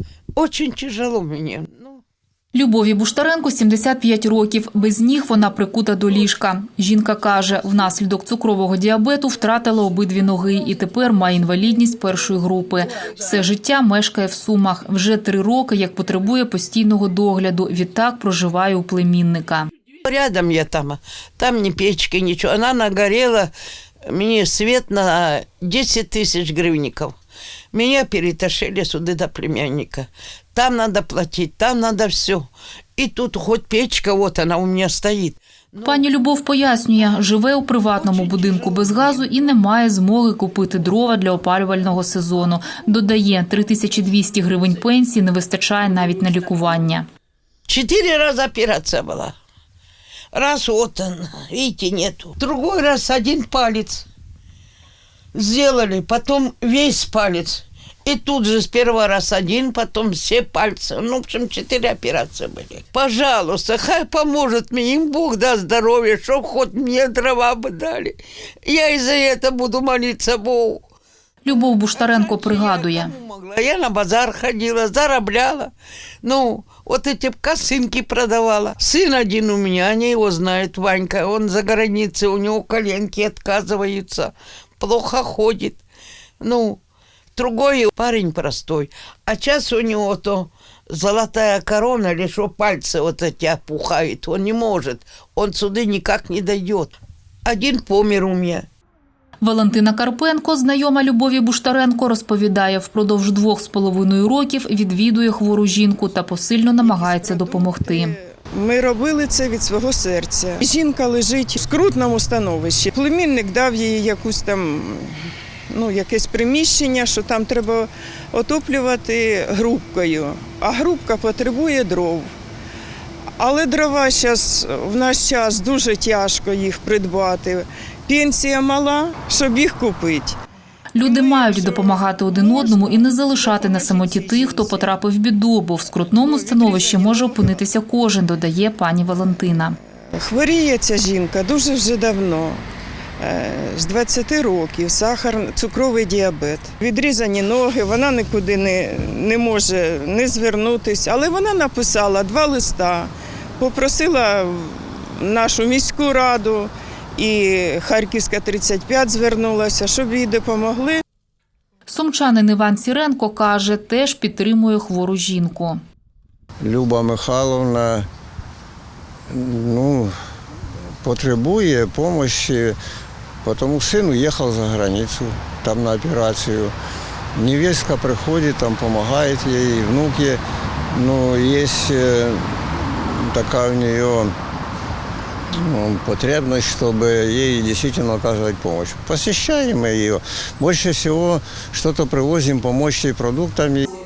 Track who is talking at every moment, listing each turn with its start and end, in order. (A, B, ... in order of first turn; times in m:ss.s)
0:00.4-0:02.0 A
0:02.5-0:19.7 B
0:20.0-0:23.5 A
0:24.0-0:27.2 A
0:27.7-0:36.0 A
0:35.8-0:47.1 B
0:47.7-0:49.4 A
0:50.3-0:54.1 A
0:55.4-1:10.8 A
1:11.4-1:13.2 B
1:11.5-1:15.7 A
1:16.2-1:25.8 A
1:26.4-1:26.8 A
1:27.4-1:36.9 A
1:37.4-1:38.7 A
1:39.4-1:48.2 B
1:46.8-1:55.2 C
1:55.7-2:02.3 C
2:03.4-2:10.4 C
2:11.0-2:19.8 B
2:11.0-2:14.9 C
2:16.2-2:17.6 C
2:20.1-2:22.6 C
2:23.2-2:41.0 C
2:41.9-2:45.8 B
2:46.6-2:48.1 D
2:49.3-2:50.1 D
2:51.0-2:52.8 D
2:53.4-2:56.7 D
2:57.4-3:00.4 D
3:00.9-3:04.4 D
3:05.5-3:13.9 D